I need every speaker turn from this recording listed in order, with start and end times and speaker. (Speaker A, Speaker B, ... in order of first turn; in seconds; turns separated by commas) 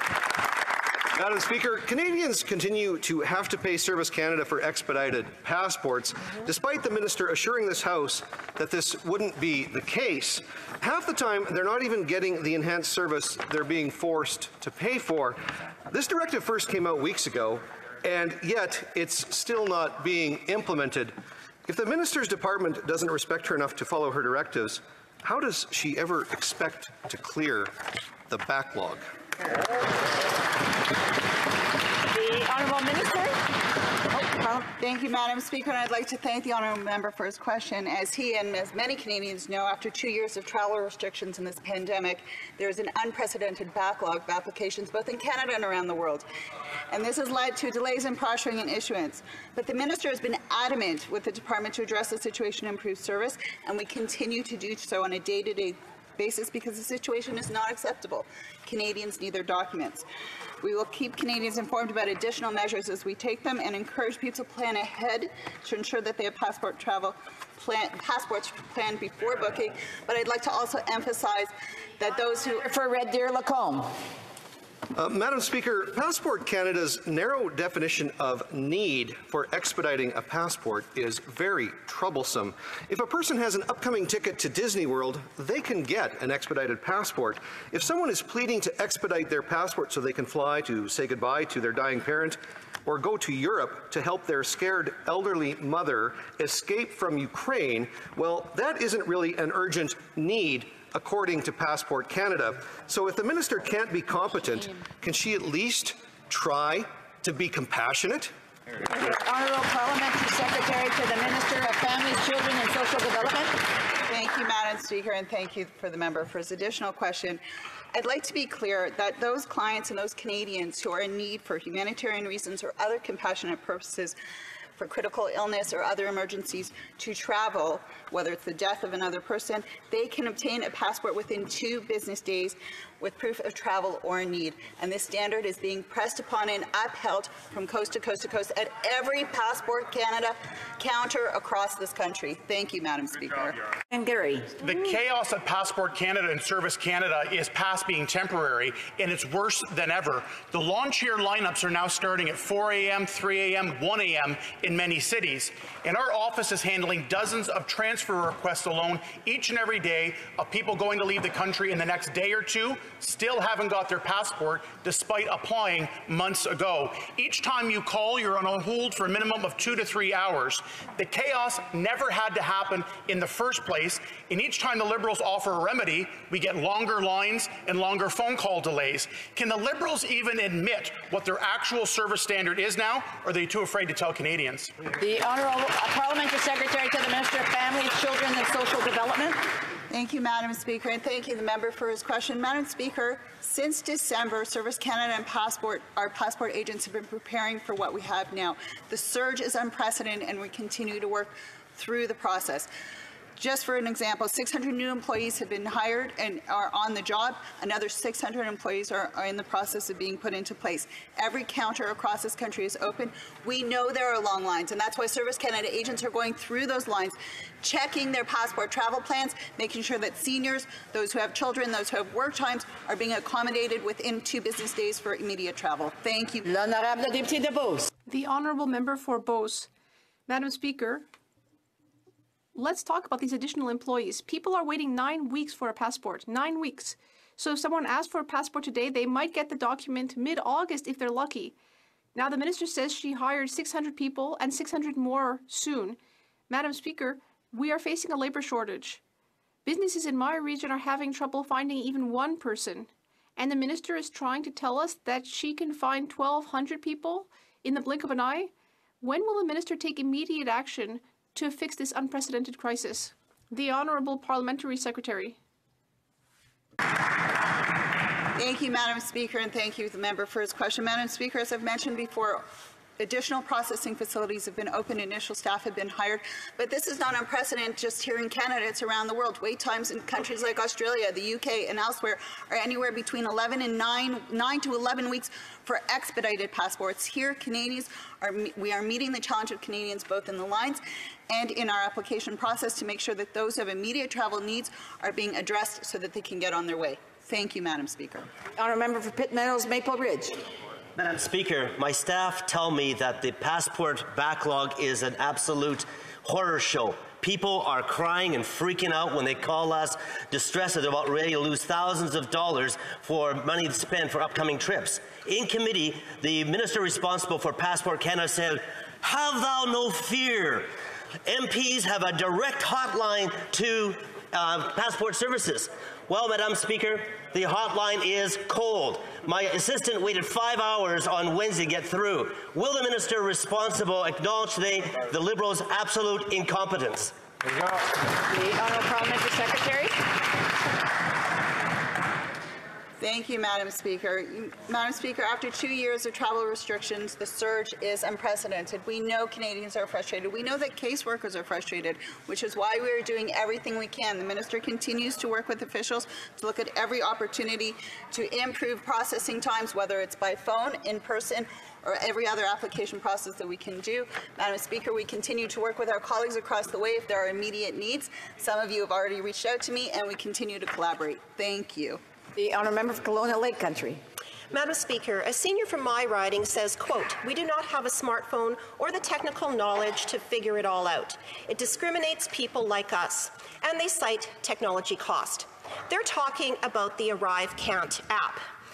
Speaker A: 1.1-21.1, Speaker A: 21.6-27.7, Speaker A: 28.3-29.0, Speaker B: 32.1-33.4, Speaker B: 34.1-34.5, Speaker C: 34.5-46.3, Speaker C: 46.9-60.0, Speaker C: 60.6-72.7, Speaker B: 72.6-73.9, Speaker A: 74.9-108.3, Speaker B: 108.9-113.5, Speaker C: 114.0-117.4, Speaker C: 117.9-124.2, Speaker C: 124.8-143.6, Speaker B: 143.9-144.5, Speaker D: 144.6-184.7, Speaker B: 184.9-189.4, Speaker C: 189.9-202.7, Speaker C: 203.4-226.4, Speaker B: 226.4-227.9, Speaker E: 228.1-229.7, Speaker E: 230.3-231.1, Speaker E: 232.5-241.5, Speaker E: 242.1-246.0, Speaker E: 246.5-249.0, Speaker E: 249.6-265.4, Speaker C: 268.4-272.4, Speaker C: 273.0-298.3, Speaker B: 298.6-300.4, Speaker F: 300.9-320.7, Speaker F: 321.2-337.1, Speaker B: 338.3-339.9, Speaker C: 343.0-372.0, Speaker B: 372.4-374.0, Speaker G: 374.5-388.4